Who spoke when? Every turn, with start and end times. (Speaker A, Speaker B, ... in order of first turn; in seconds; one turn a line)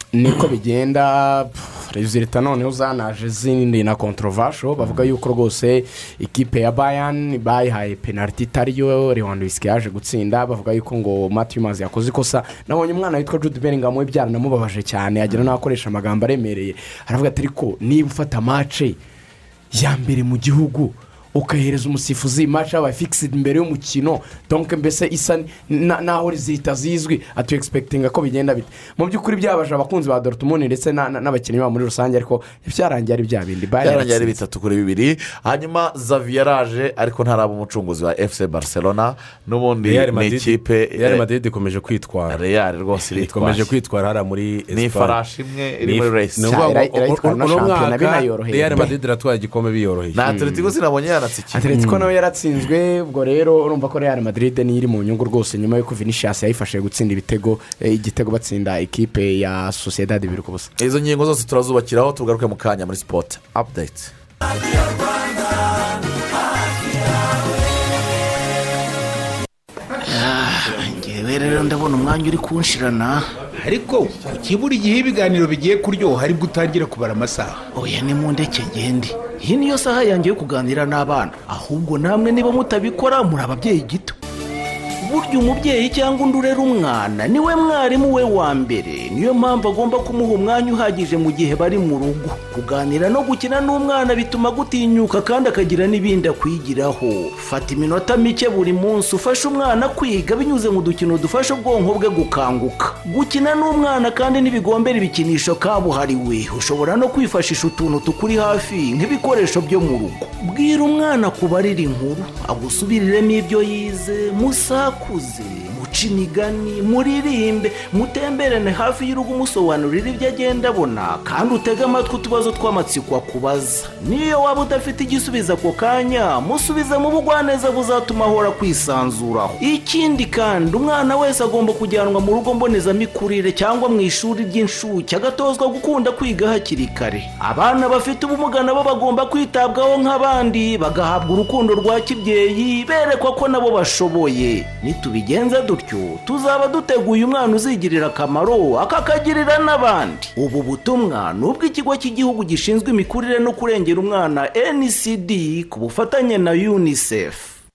Speaker A: 0.1-19.0
Speaker B: 4.8-5.1
Speaker A: 19.7-34.3
Speaker B: 33.8-41.2
Speaker C: 39.8-42.4
Speaker B: 42.3-43.7
Speaker C: 43.1-45.2
Speaker B: 44.7-46.5
Speaker C: 45.8-50.5
Speaker A: 46.5-48.9
Speaker B: 50.1-51.7
Speaker A: 51.5-60.7
Speaker C: 51.7-52.1
Speaker B: 60.8-64.1
Speaker D: 70.1-73.2
Speaker E: 73.6-77.7
Speaker D: 77.7-84.2
Speaker D: 85.0-157.6